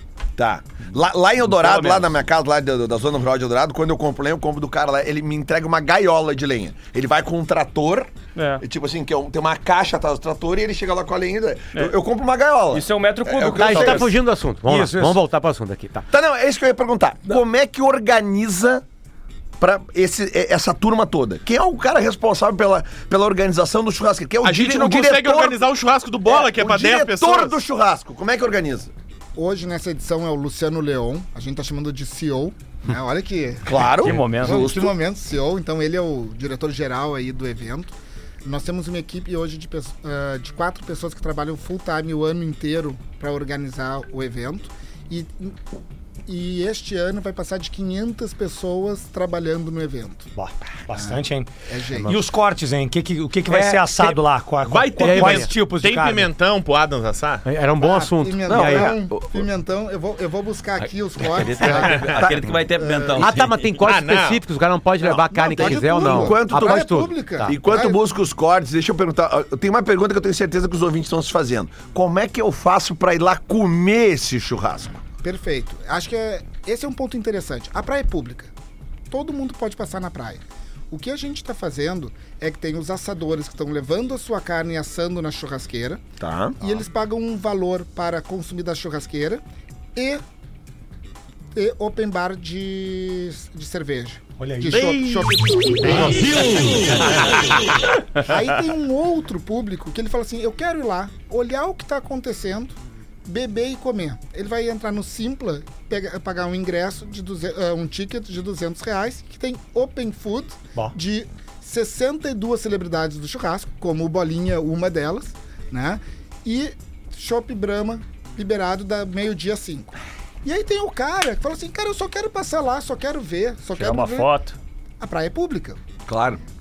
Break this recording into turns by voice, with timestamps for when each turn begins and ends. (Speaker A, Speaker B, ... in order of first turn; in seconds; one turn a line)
Speaker A: 0.4-14.1
Speaker B: 1.5-2.1
Speaker B: 8.3-8.6
Speaker B: 12.7-14.1
Speaker C: 13.5-16.1
Speaker D: 14.6-15.2
Speaker A: 16.1-18.8
Speaker A: 19.6-25.6
Speaker E: 24.4-27.5
Speaker A: 26.2-28.9
Speaker F: 29.4-45.5
Speaker A: 33.7-34.9
Speaker B: 34.0-34.7
Speaker F: 46.3-50.3
Speaker D: 50.4-51.5
Speaker F: 50.9-52.2
Speaker D: 52.0-56.3
Speaker C: 53.5-54.2
Speaker E: 54.6-57.4
Speaker C: 55.0-55.5
Speaker C: 57.4-58.9
Speaker F: 57.8-62.2
Speaker A: 58.4-59.5
Speaker G: 61.2-63.7
Speaker E: 61.8-62.2
Speaker A: 62.1-62.5
Speaker F: 62.8-63.2
Speaker C: 63.2-67.6
Speaker E: 63.8-64.4
Speaker A: 65.0-75.0
Speaker F: 65.3-68.0
Speaker F: 75.2-78.5
Speaker F: 79.1-86.0
Speaker A: 86.2-86.6
Speaker F: 86.6-89.4
Speaker F: 89.9-90.2
Speaker F: 91.5-96.5
Speaker D: 94.4-97.1
Speaker F: 98.2-124.3
Speaker B: 123.7-124.5
Speaker F: 125.0-125.8
Speaker A: 126.1-126.4